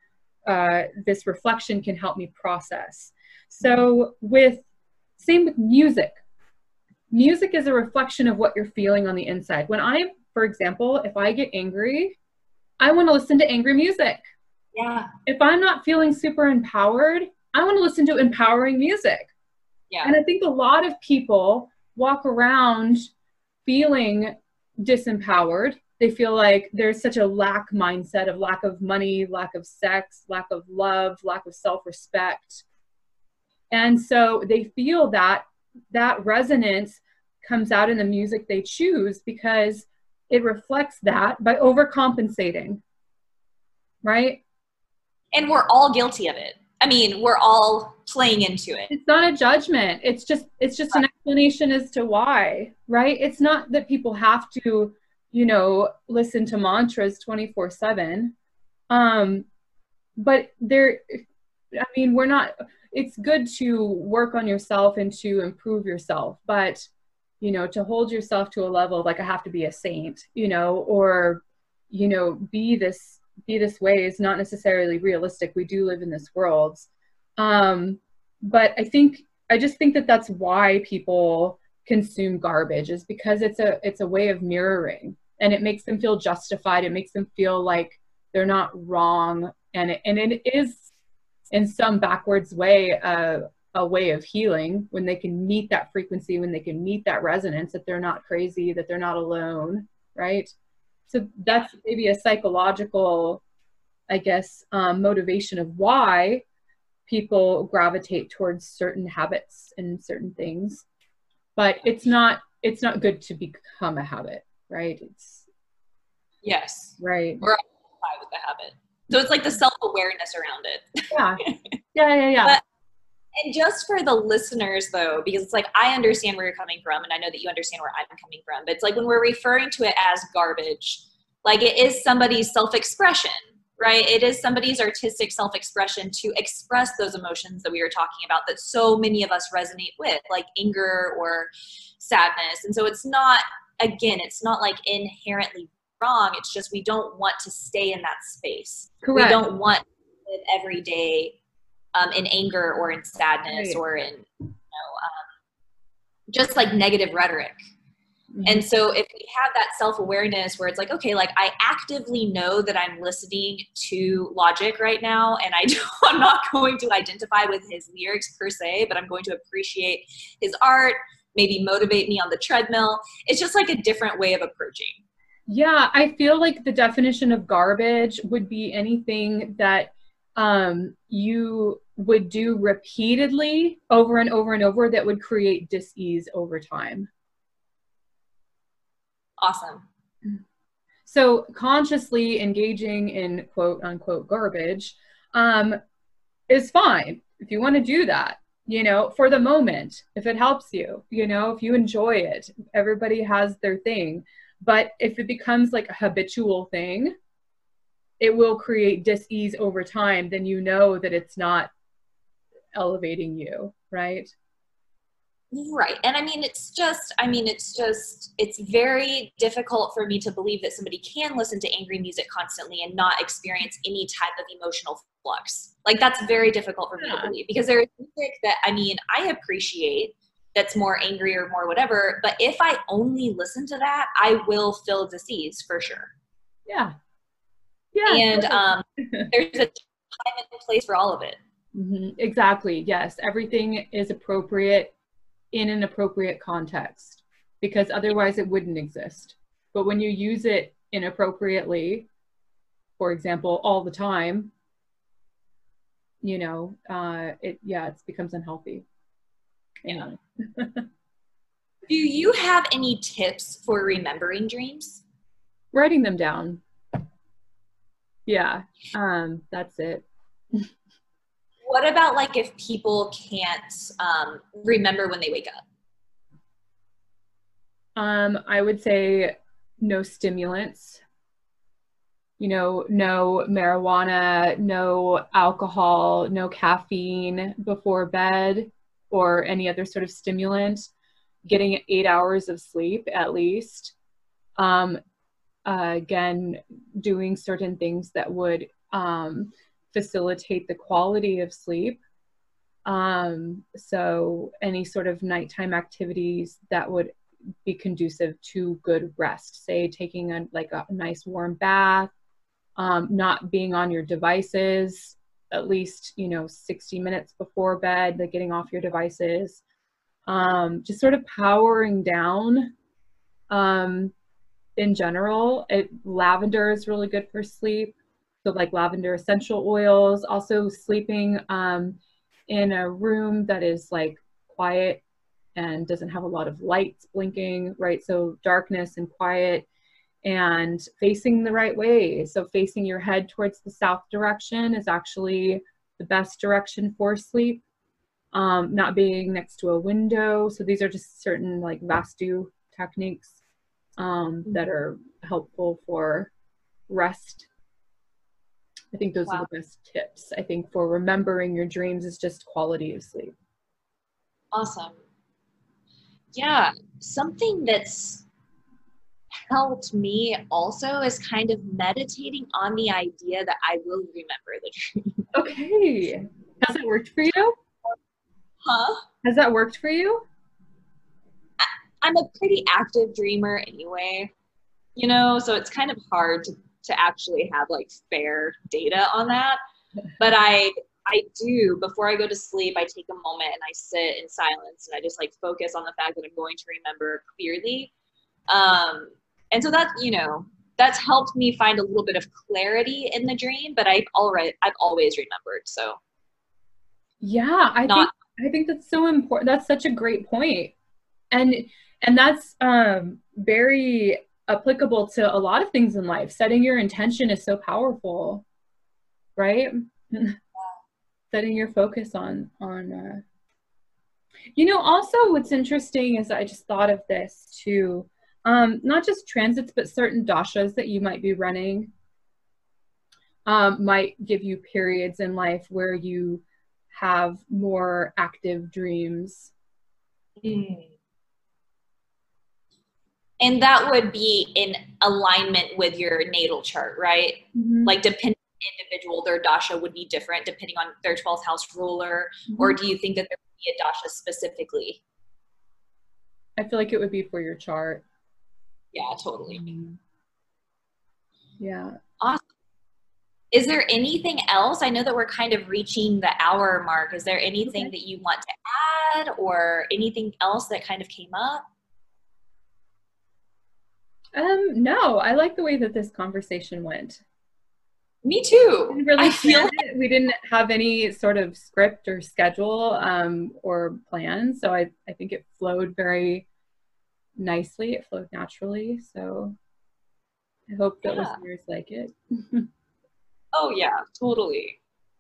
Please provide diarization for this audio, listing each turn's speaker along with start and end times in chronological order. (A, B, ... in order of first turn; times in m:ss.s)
0:00.4-0:04.7 A
0:05.2-0:06.2 A
0:07.1-0:12.2 A
0:12.8-0:14.2 A
0:14.8-0:15.1 B
0:15.3-0:19.3 A
0:19.9-0:20.2 B
0:20.0-0:23.1 A
0:23.6-0:32.6 A
0:33.7-0:42.8 A
0:44.0-0:44.4 A
0:45.3-0:48.9 B
0:48.9-0:58.4 A
0:58.9-0:59.5 A
1:00.2-1:06.9 A
1:07.4-1:30.9 A
1:31.5-1:40.5 A
1:41.1-1:43.4 A
1:44.1-1:46.4 A
1:47.1-1:50.8 A
1:51.6-1:55.5 A
1:56.4-2:01.6 B
1:57.0-1:57.4 A
2:01.1-2:01.4 A
2:01.9-2:02.6 A
2:03.4-2:31.4 B
2:29.0-2:29.4 A
2:32.0-2:35.2 B
2:33.5-2:33.8 A
2:36.3-2:37.6 B
2:38.3-2:38.6 A
2:38.4-2:55.0 B
2:55.5-3:07.1 A
3:09.4-3:09.9 B
3:11.1-3:15.8 A
3:16.5-3:27.1 A
3:28.2-3:31.7 A
3:32.7-3:34.3 A
3:35.5-3:56.1 B
3:47.0-3:47.3 A
3:56.7-3:56.9 A
3:57.9-3:59.3 A
3:58.1-4:01.4 B
4:01.7-4:04.9 A
4:05.5-4:12.1 A
4:13.0-4:14.5 A
4:16.2-4:18.8 A
4:19.8-4:20.9 A
4:21.9-4:25.0 B
4:25.7-4:26.6 A
4:28.3-4:30.7 A
4:31.6-4:35.6 B
4:38.0-4:41.0 A
4:42.4-4:50.9 A
4:51.4-4:54.0 A
4:54.6-4:55.0 A
4:55.7-5:02.0 A
5:02.8-5:07.1 A
5:07.6-5:12.1 A
5:12.8-5:19.6 A
5:20.3-5:22.7 A
5:23.5-5:24.1 A
5:24.8-5:35.0 A
5:35.6-5:39.7 A
5:40.2-5:47.6 A
5:48.3-5:53.4 A
5:54.0-5:56.3 A
5:56.9-5:57.5 A
5:58.9-6:03.4 A
6:04.5-6:05.0 B
6:06.3-6:08.3 B
6:09.5-6:15.3 B
6:15.3-6:17.6 A
6:18.6-6:19.0 B
6:19.2-6:20.2 A
6:21.6-6:24.3 B
6:25.0-6:29.6 B
6:30.2-6:37.9 B
6:38.5-6:46.0 B
6:47.2-6:50.7 A
6:51.3-6:58.4 A
6:59.4-7:00.4 A
7:01.3-7:03.2 A
7:04.6-7:11.9 A
7:13.5-7:19.5 A
7:20.4-7:20.9 B
7:23.4-7:35.0 B
7:27.5-7:28.0 A
7:32.5-7:32.8 A
7:36.6-7:38.0 A
7:38.9-7:39.7 B
7:39.5-7:40.0 A
7:41.6-7:42.0 A
7:42.2-7:42.4 B
7:43.5-7:51.6 B
7:54.4-7:57.2 A
7:58.2-7:59.8 B
7:58.9-8:06.5 A
8:07.4-8:09.6 A
8:10.7-8:12.7 A
8:11.0-8:11.4 B
8:13.5-8:14.8 B